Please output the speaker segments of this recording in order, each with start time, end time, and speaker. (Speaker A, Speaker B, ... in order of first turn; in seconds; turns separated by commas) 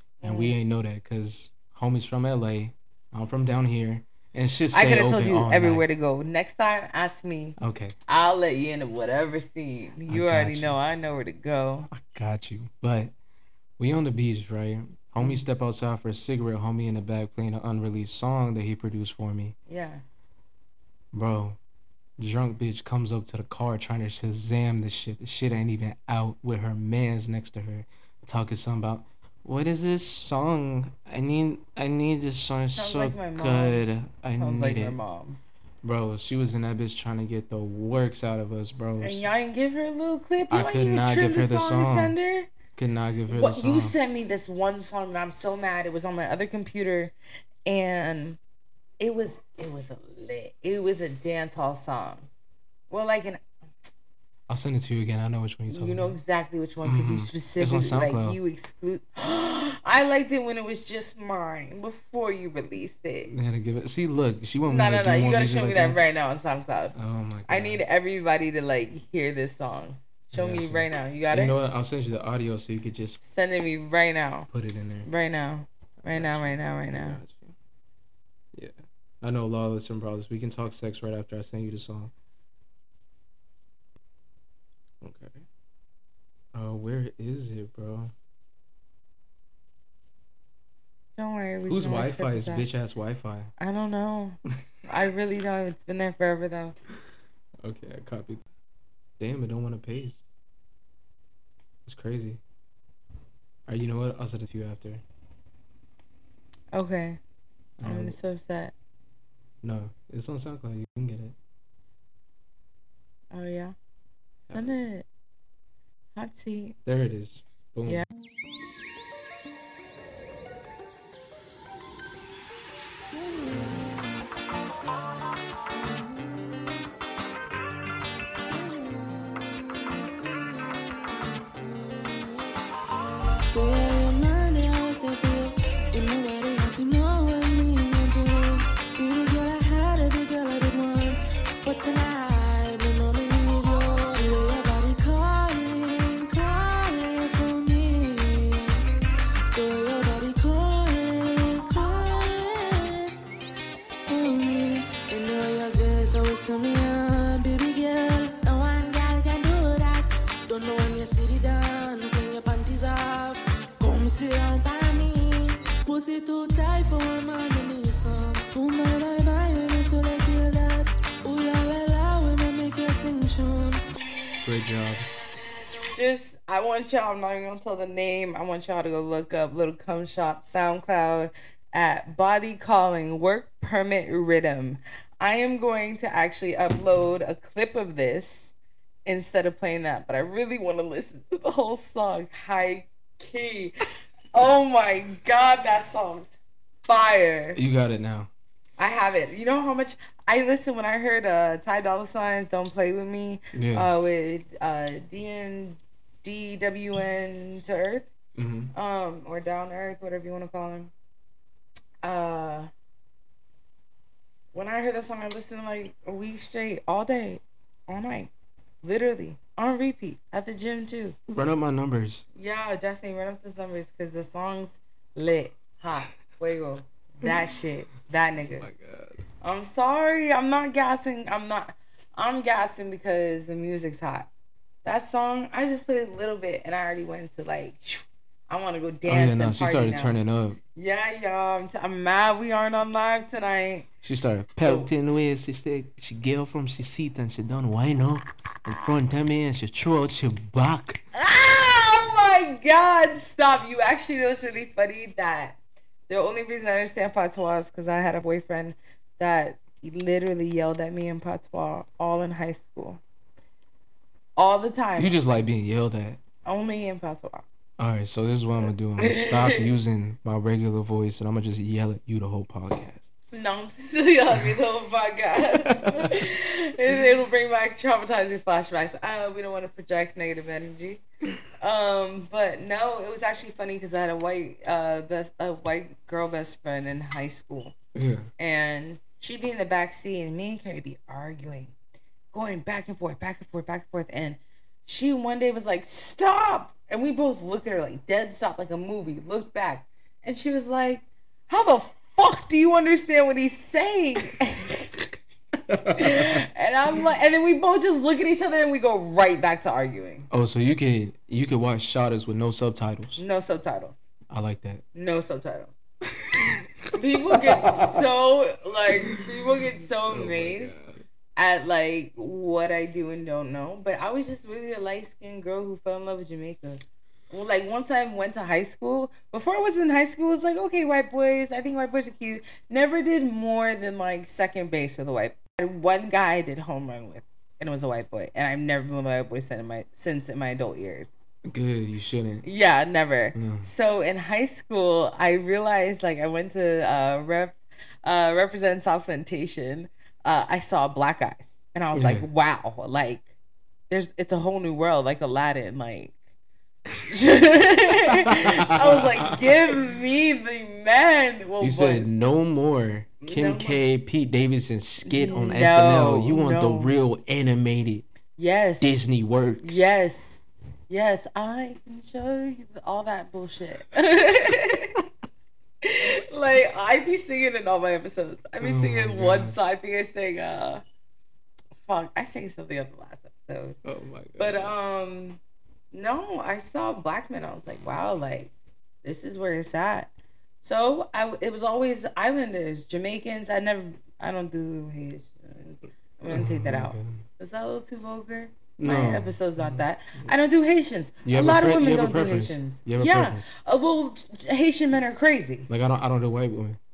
Speaker A: 0.2-0.6, Speaker B: 0.2-5.8, Speaker A: 4.7-11.9, Speaker B: 7.6-8.0, Speaker B: 10.1-10.8, Speaker B: 11.9-13.1, Speaker B: 13.8-19.6, Speaker A: 19.7-20.0, Speaker B: 21.1-21.6, Speaker B: 22.2-35.0, Speaker A: 32.8-35.4, Speaker B: 35.8-39.3, Speaker A: 39.0-42.5, Speaker B: 40.5-42.1, Speaker B: 42.8-43.9, Speaker A: 43.3-47.1, Speaker A: 47.7-48.4, Speaker A: 49.0-52.3, Speaker A: 52.9-53.4, Speaker B: 54.5-56.2, Speaker A: 55.7-63.3, Speaker B: 56.8-58.4, Speaker B: 63.3-66.0, Speaker A: 64.7-71.6, Speaker B: 67.0-67.8, Speaker B: 70.3-73.2, Speaker A: 73.2-74.5, Speaker B: 74.5-75.1, Speaker A: 75.0-77.2, Speaker B: 76.1-77.5, Speaker B: 78.5-82.1, Speaker B: 85.0-85.5, Speaker B: 86.5-88.1, Speaker A: 91.2-92.7, Speaker B: 91.7-93.5, Speaker A: 93.6-96.8, Speaker B: 97.6-98.5, Speaker B: 99.2-100.2, Speaker B: 101.9-102.4, Speaker B: 103.7-105.0, Speaker A: 106.7-107.2, Speaker B: 107.8-108.2, Speaker A: 107.8-108.7, Speaker B: 109.6-111.4, Speaker A: 113.3-113.8, Speaker B: 114.5-114.8, Speaker A: 114.5-115.0, Speaker A: 116.2-116.8, Speaker B: 116.8-118.0, Speaker C: 123.2-124.0, Speaker C: 125.7-126.8, Speaker C: 128.5-132.5, Speaker C: 133.4-148.9, Speaker C: 149.5-153.2, Speaker C: 154.1-176.0, Speaker B: 174.4-175.1, Speaker A: 175.9-188.5, Speaker A: 189.1-197.6, Speaker B: 197.6-198.3, Speaker A: 198.8-208.1, Speaker B: 203.5-203.9, Speaker B: 208.4-208.7, Speaker A: 208.7-210.9, Speaker A: 212.0-212.7, Speaker A: 214.5-218.3, Speaker A: 218.8-221.2, Speaker B: 221.3-222.2, Speaker A: 222.3-228.7, Speaker B: 228.6-229.2, Speaker A: 229.4-234.3, Speaker A: 234.8-240.2, Speaker B: 239.1-240.6, Speaker A: 240.8-243.9, Speaker B: 244.0-251.0, Speaker A: 251.1-255.6, Speaker A: 256.1-263.0, Speaker A: 264.4-265.1, Speaker B: 265.0-266.2, Speaker A: 266.4-267.4, Speaker B: 267.8-273.1, Speaker A: 269.0-269.7, Speaker A: 273.3-281.0, Speaker B: 275.7-276.1, Speaker A: 281.6-287.8, Speaker B: 287.9-288.3, Speaker A: 288.4-291.7, Speaker A: 292.3-305.0, Speaker B: 305.7-306.4, Speaker A: 305.9-310.3, Speaker B: 310.3-313.2, Speaker A: 313.2-314.0, Speaker B: 314.3-314.8, Speaker A: 314.9-315.8, Speaker B: 316.2-316.6, Speaker A: 316.9-320.8, Speaker B: 317.3-317.8, Speaker B: 320.1-320.9, Speaker A: 321.4-341.1, Speaker B: 341.5-342.5, Speaker A: 342.4-353.3, Speaker B: 343.4-343.7, Speaker B: 351.9-352.3, Speaker A: 353.9-356.2, Speaker A: 357.1-362.2, Speaker B: 358.3-359.5, Speaker B: 361.6-368.1, Speaker A: 363.2-363.8, Speaker A: 365.0-367.0, Speaker A: 368.4-369.0, Speaker B: 368.8-369.9, Speaker A: 369.6-375.0, Speaker A: 375.8-380.8, Speaker B: 378.6-379.6, Speaker A: 381.8-383.8, Speaker B: 383.8-384.7, Speaker A: 384.4-385.4, Speaker A: 385.9-388.5, Speaker A: 389.0-390.1, Speaker A: 390.6-405.7, Speaker B: 396.3-397.2, Speaker B: 398.8-399.9, Speaker B: 401.2-403.5, Speaker B: 405.7-406.8